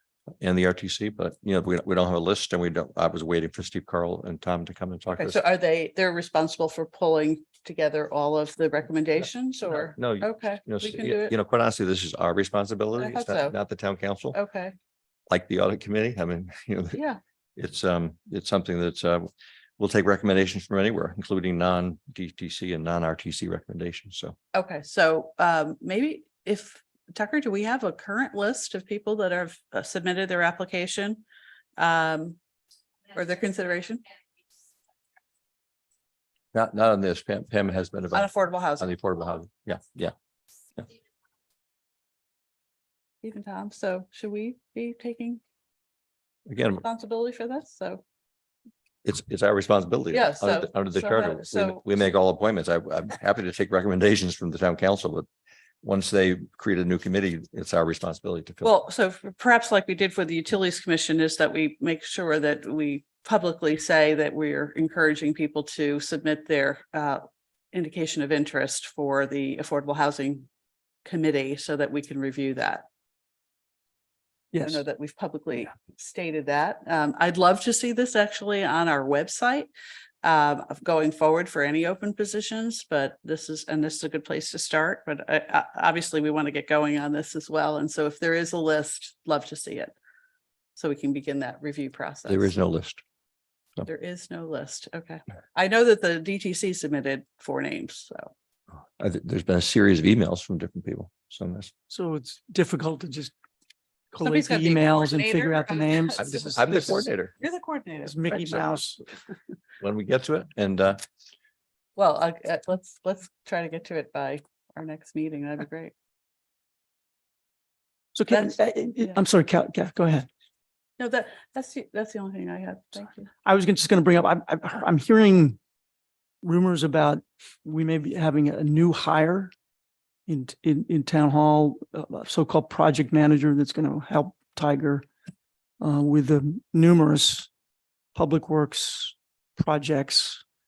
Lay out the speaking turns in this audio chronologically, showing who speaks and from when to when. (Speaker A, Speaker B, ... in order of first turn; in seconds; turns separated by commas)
Speaker A: 0.4-5.4, Speaker B: 5.1-11.3, Speaker A: 9.7-14.4, Speaker B: 13.0-13.6, Speaker B: 14.3-14.8, Speaker A: 15.3-17.0, Speaker B: 16.9-17.2, Speaker A: 17.6-19.3, Speaker A: 19.8-24.4, Speaker B: 24.5-31.2, Speaker B: 31.8-32.4, Speaker B: 33.1-34.0, Speaker A: 36.5-40.1, Speaker B: 38.1-38.9, Speaker B: 43.2-45.4, Speaker A: 46.5-46.8, Speaker B: 46.8-48.0, Speaker A: 49.0-55.3, Speaker B: 50.1-51.8, Speaker A: 55.8-58.7, Speaker B: 58.6-70.5, Speaker B: 71.0-72.8, Speaker C: 74.5-74.8, Speaker B: 74.7-79.7, Speaker B: 80.2-89.9, Speaker B: 90.8-92.5, Speaker A: 92.3-93.0, Speaker B: 93.9-98.3, Speaker A: 99.0-101.7, Speaker C: 101.9-103.3, Speaker C: 104.1-107.1, Speaker B: 104.2-106.5, Speaker A: 106.2-107.3, Speaker B: 107.4-108.6, Speaker C: 108.0-109.0, Speaker A: 109.8-111.0, Speaker B: 112.0-115.9, Speaker C: 118.2-120.3, Speaker B: 121.0-123.3, Speaker C: 123.5-125.6, Speaker C: 126.4-129.5, Speaker C: 130.3-135.0, Speaker C: 135.8-137.5, Speaker C: 138.1-140.4